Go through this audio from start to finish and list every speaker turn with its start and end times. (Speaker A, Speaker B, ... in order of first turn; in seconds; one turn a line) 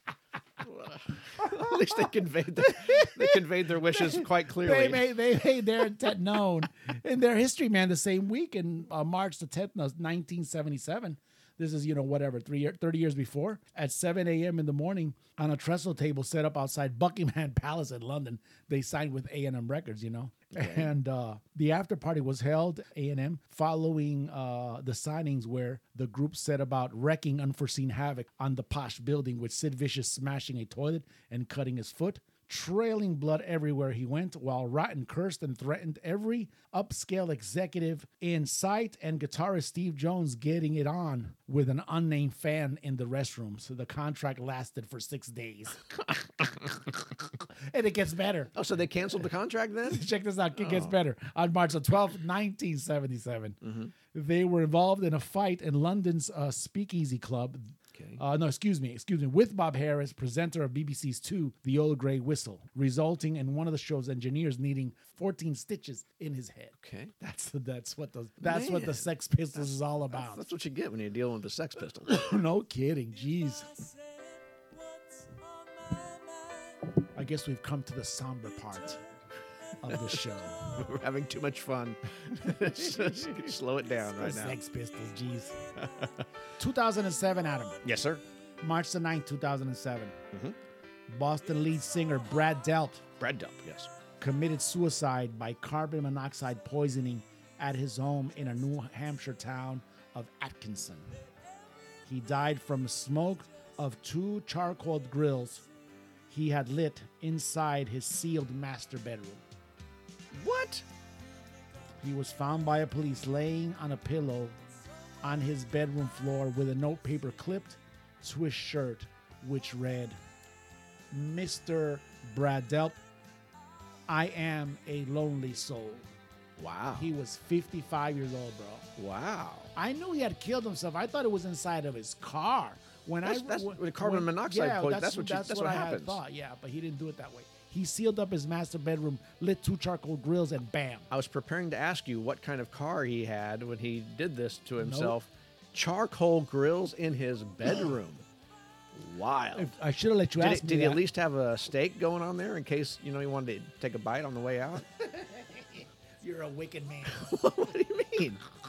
Speaker A: 0.6-5.2
Speaker B: 1.4-48.5
Speaker A: 20.5-20.9
Speaker A: 48.5-50.9
Speaker B: 49.9-53.6
Speaker A: 53.6-53.9
Speaker B: 54.1-70.5
Speaker A: 57.9-58.2
Speaker A: 66.8-67.1
Speaker A: 68.4-72.2
Speaker B: 72.1-73.7
Speaker B: 77.2-79.0
Speaker B: 79.8-80.8
Speaker A: 79.9-80.1
Speaker A: 80.7-84.6
Speaker B: 82.4-83.5
Speaker B: 84.2-85.6
Speaker A: 85.8-86.2
Speaker B: 86.6-87.8
Speaker A: 87.8-88.2
Speaker B: 88.6-90.2
Speaker B: 91.1-93.0
Speaker A: 93.2-93.9
Speaker B: 94.2-101.1
Speaker B: 102.0-105.7
Speaker B: 106.3-109.4
Speaker A: 110.3-110.8
Speaker B: 112.0-114.6
Speaker B: 115.2-120.2
Speaker B: 121.1-123.0
Speaker B: 124.1-126.1
Speaker A: 126.6-127.1
Speaker B: 126.9-128.9
Speaker A: 129.0-129.7
Speaker B: 129.7-141.1
Speaker A: 133.2-136.2
Speaker A: 141.1-148.2
Speaker B: 144.8-145.2
Speaker A: 148.9-149.7
Speaker B: 149.5-151.0
Speaker A: 150.4-154.9
Speaker B: 154.9-157.4
Speaker A: 157.1-158.4